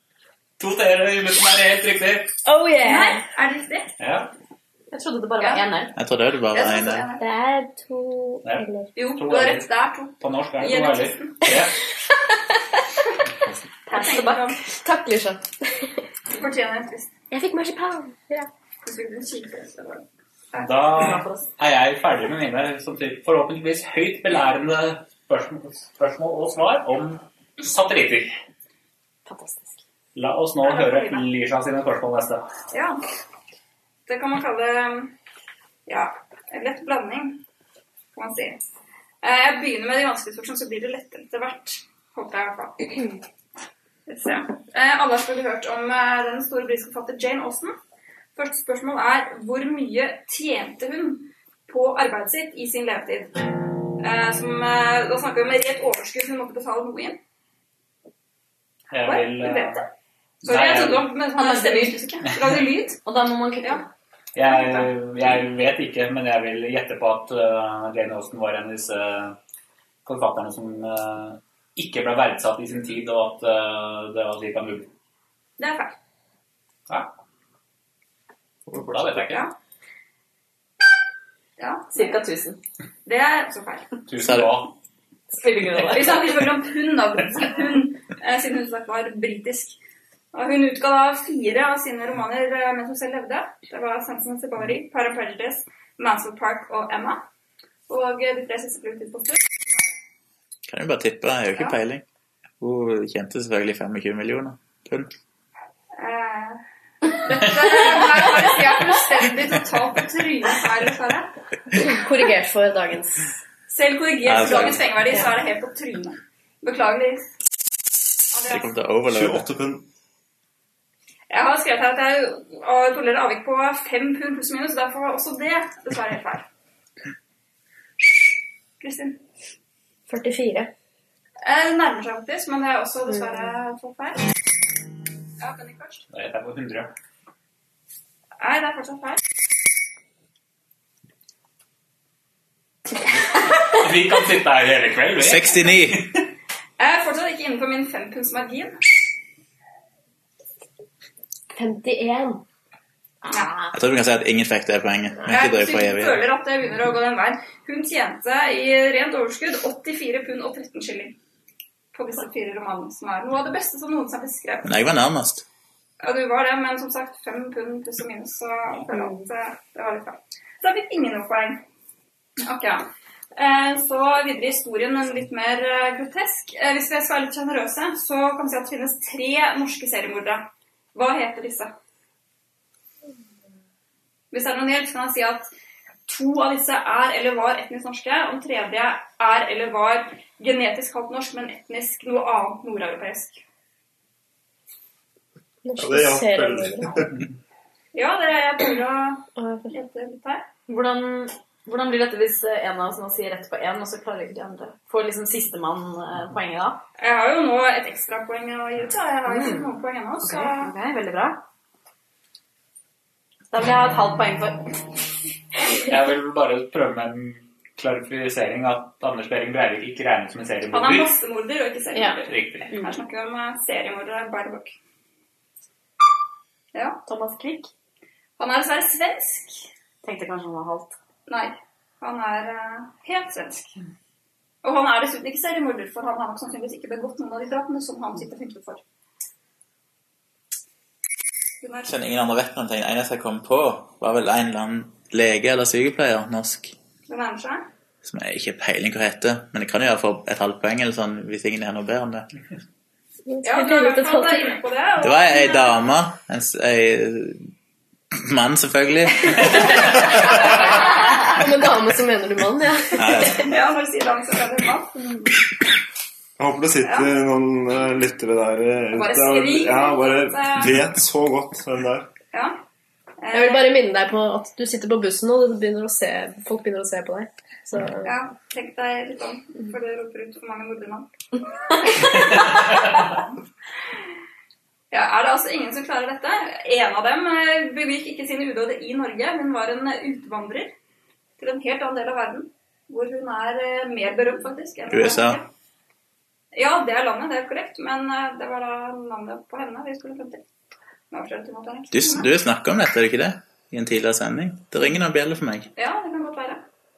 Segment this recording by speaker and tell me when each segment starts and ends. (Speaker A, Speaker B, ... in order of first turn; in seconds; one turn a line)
Speaker A: 0.6-2.3
Speaker B: 2.5-3.2
Speaker C: 2.8-3.9
Speaker A: 4.0-4.3
Speaker D: 4.9-5.9
Speaker C: 5.4-5.6
Speaker E: 5.9-7.1
Speaker C: 6.5-7.2
Speaker B: 7.2-8.9
Speaker A: 8.4-9.7
Speaker C: 8.9-11.5
Speaker A: 10.2-11.8
Speaker D: 13.8-14.6
Speaker C: 13.9-14.6
Speaker B: 14.8-16.0
Speaker C: 16.3-17.1
Speaker B: 17.3-18.5
Speaker C: 18.8-20.9
Speaker A: 20.6-28.3
Speaker D: 21.0-21.5
Speaker D: 29.2-29.8
Speaker A: 30.1-32.4
Speaker C: 30.6-31.2
Speaker C: 32.7-33.0
Speaker C: 34.0-35.1
Speaker C: 35.9-37.4
Speaker C: 38.1-38.6
Speaker C: 39.2-43.0
Speaker C: 44.1-47.8
Speaker C: 48.4-53.4
Speaker C: 54.0-57.2
Speaker A: 58.9-59.8
Speaker C: 59.0-59.9
Speaker C: 60.4-63.0
Speaker A: 60.4-61.1
Speaker D: 61.3-62.1
Speaker A: 62.3-62.6
Speaker D: 63.0-63.9
Speaker A: 64.3-69.4
Speaker C: 64.5-64.9
Speaker A: 70.0-74.9
Speaker C: 75.6-75.9
Speaker A: 78.7-79.5
Speaker F: 78.7-79.2
Speaker C: 79.2-79.5
Speaker C: 81.6-82.2
Speaker D: 81.9-82.6
Speaker C: 83.0-83.9
Speaker A: 84.1-84.7
Speaker E: 84.2-84.6
Speaker D: 85.3-86.3
Speaker C: 85.8-89.8
Speaker C: 90.3-97.2
Speaker C: 97.9-99.8
Speaker E: 100.7-102.0
Speaker E: 102.6-105.1
Speaker C: 105.9-111.8
Speaker B: 111.8-113.3
Speaker C: 113.7-117.3
Speaker E: 114.2-114.9
Speaker C: 118.3-118.7
Speaker E: 118.5-119.5
Speaker F: 119.0-119.8
Speaker C: 121.3-126.5
Speaker C: 128.8-129.2
Speaker B: 130.1-130.7
Speaker C: 131.4-134.3
Speaker B: 133.1-133.5
Speaker C: 135.4-136.0
Speaker A: 136.1-136.9
Speaker C: 138.4-139.2
Speaker A: 143.6-146.2
Speaker E: 145.2-146.1
Speaker C: 146.8-148.8
Speaker B: 151.5-152.4
Speaker C: 153.3-153.7
Speaker E: 153.7-156.2
Speaker C: 155.3-161.2
Speaker C: 161.9-164.7
Speaker E: 164.6-165.4
Speaker C: 166.0-171.6
Speaker B: 168.9-169.2
Speaker C: 172.4-181.7
Speaker C: 184.3-185.5
Speaker C: 186.1-193.4
Speaker B: 195.6-197.0
Speaker F: 195.8-197.2
Speaker C: 197.9-200.4
Speaker B: 199.3-199.7
Speaker D: 200.7-206.8
Speaker C: 207.0-210.7
Speaker D: 209.2-211.4
Speaker D: 213.5-214.9
Speaker A: 215.8-221.1
Speaker C: 220.7-224.8
Speaker A: 222.2-222.7
Speaker C: 226.7-227.0
Speaker D: 227.1-227.7
Speaker C: 228.4-229.7
Speaker D: 230.0-230.9
Speaker C: 231.3-233.7
Speaker C: 234.6-238.8
Speaker C: 241.6-241.9
Speaker E: 241.8-246.7
Speaker C: 247.1-247.7
Speaker E: 248.0-252.3
Speaker B: 253.2-254.6
Speaker C: 253.4-255.8
Speaker E: 255.0-257.5
Speaker E: 258.1-260.1
Speaker B: 261.1-263.5
Speaker E: 262.9-263.5
Speaker C: 263.4-265.0
Speaker F: 266.4-272.1
Speaker C: 266.8-267.2
Speaker C: 268.9-270.8
Speaker C: 272.3-272.6
Speaker C: 273.2-273.7
Speaker B: 273.3-278.1
Speaker C: 278.0-281.1
Speaker C: 281.7-283.0
Speaker A: 282.5-283.0
Speaker C: 284.9-290.7
Speaker C: 291.4-295.5
Speaker E: 294.9-295.4
Speaker C: 296.5-300.4
Speaker C: 301.1-302.3
Speaker E: 301.9-305.7
Speaker C: 305.8-306.6